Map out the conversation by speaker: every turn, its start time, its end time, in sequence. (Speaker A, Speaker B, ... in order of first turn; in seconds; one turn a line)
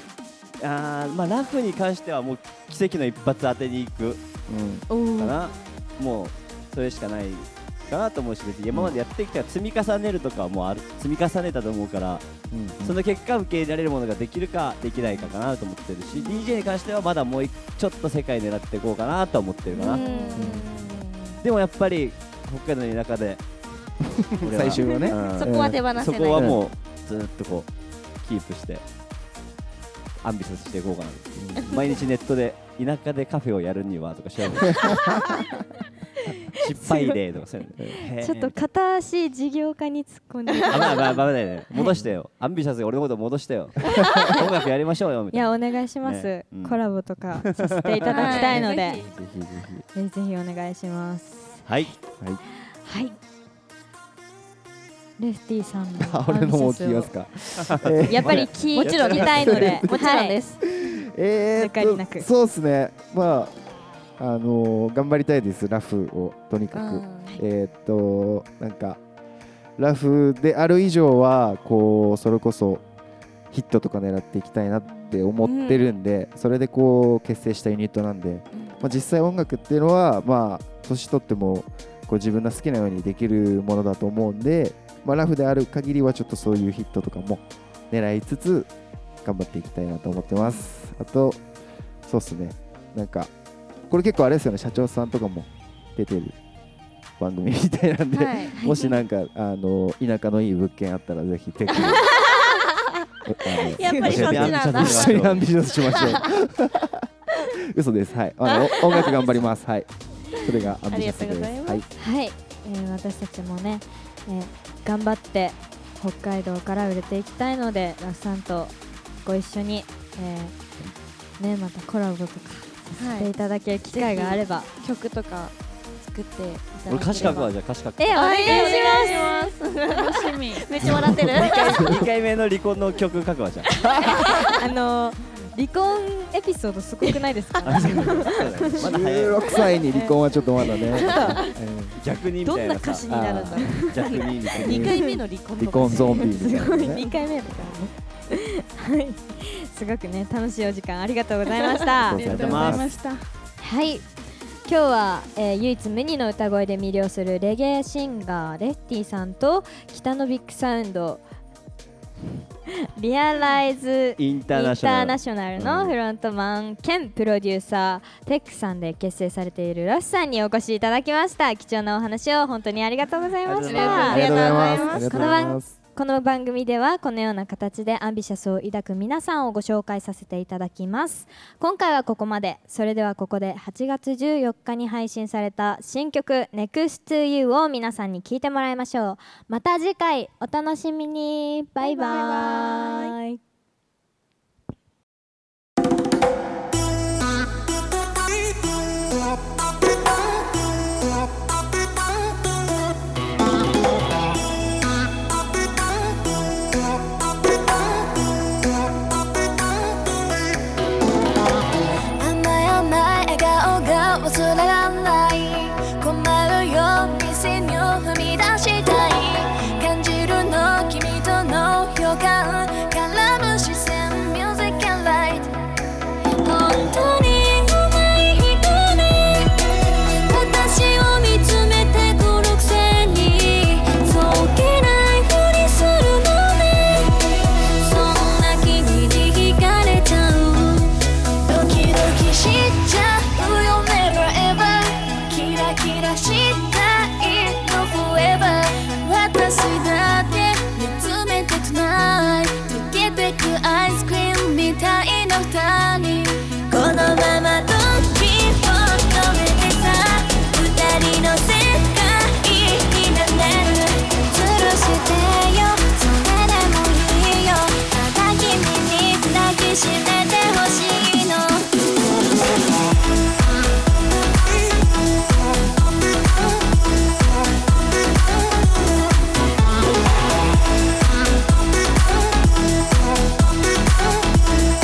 Speaker A: 0.6-4.2
Speaker B: 4.5-4.9
Speaker C: 4.9-5.3
Speaker A: 5.2-12.2
Speaker B: 12.5-13.0
Speaker A: 12.8-20.0
Speaker D: 16.1-16.5
Speaker D: 19.8-21.4
Speaker C: 19.8-20.5
Speaker B: 20.4-20.7
Speaker A: 21.4-23.4
Speaker B: 24.1-25.8
Speaker A: 24.4-27.7
Speaker D: 24.9-26.6
Speaker B: 26.3-26.6
Speaker A: 28.2-28.8
Speaker A: 30.2-35.0
Speaker B: 31.4-31.8
Speaker B: 34.7-35.1
Speaker C: 36.5-37.2
Speaker A: 36.5-38.6
Speaker C: 38.1-42.0
Speaker D: 40.5-41.2
Speaker A: 40.7-45.5
Speaker B: 41.7-42.1
Speaker C: 45.3-49.0
Speaker A: 46.0-46.8
Speaker A: 47.4-48.5
Speaker D: 48.1-49.1
Speaker B: 48.3-49.8
Speaker C: 49.9-51.7
Speaker A: 51.7-51.9
Speaker C: 52.8-53.2
Speaker C: 55.2-57.1
Speaker B: 56.0-58.5
Speaker A: 57.6-59.8
Speaker C: 58.1-60.4
Speaker D: 58.8-60.6
Speaker B: 59.5-59.9
Speaker B: 60.6-63.6
Speaker C: 61.6-62.3
Speaker B: 64.2-69.0
Speaker D: 66.7-67.4
Speaker B: 69.8-72.8
Speaker B: 73.5-88.7
Speaker D: 75.4-75.9
Speaker D: 78.5-78.8
Speaker B: 89.2-91.4
Speaker B: 92.0-93.3
Speaker B: 93.9-96.4
Speaker B: 97.2-102.1
Speaker D: 98.1-99.0
Speaker D: 101.9-102.6
Speaker B: 103.2-107.1
Speaker D: 103.4-106.3
Speaker C: 103.8-104.1
Speaker A: 104.0-106.2
Speaker B: 107.7-111.8
Speaker D: 108.5-109.3
Speaker D: 110.9-111.9
Speaker C: 112.0-120.6
Speaker C: 121.4-124.7
Speaker D: 123.0-123.3
Speaker D: 123.9-127.6
Speaker A: 126.9-128.9
Speaker C: 128.0-129.6
Speaker D: 128.2-132.0
Speaker E: 129.9-130.9
Speaker B: 130.8-132.0
Speaker A: 131.3-133.9
Speaker D: 133.9-134.5
Speaker C: 134.4-138.8
Speaker A: 137.6-139.4
Speaker B: 138.7-142.0
Speaker D: 139.5-141.5
Speaker C: 139.9-140.2
Speaker C: 140.8-141.5
Speaker A: 142.0-143.1
Speaker D: 142.4-147.7
Speaker B: 143.1-143.9
Speaker A: 143.8-145.0
Speaker B: 144.6-147.0
Speaker C: 145.8-152.6
Speaker B: 152.0-152.9
Speaker E: 152.1-153.3
Speaker A: 152.3-152.9
Speaker C: 153.6-154.1
Speaker C: 154.7-161.2
Speaker C: 162.9-193.4
Speaker A: 164.2-165.8
Speaker B: 165.6-165.9
Speaker A: 173.5-174.7
Speaker D: 173.6-175.4
Speaker B: 173.9-175.8
Speaker D: 191.8-193.2
Speaker F: 212.2-225.5
Speaker F: 226.4-229.6
Speaker F: 230.3-271.7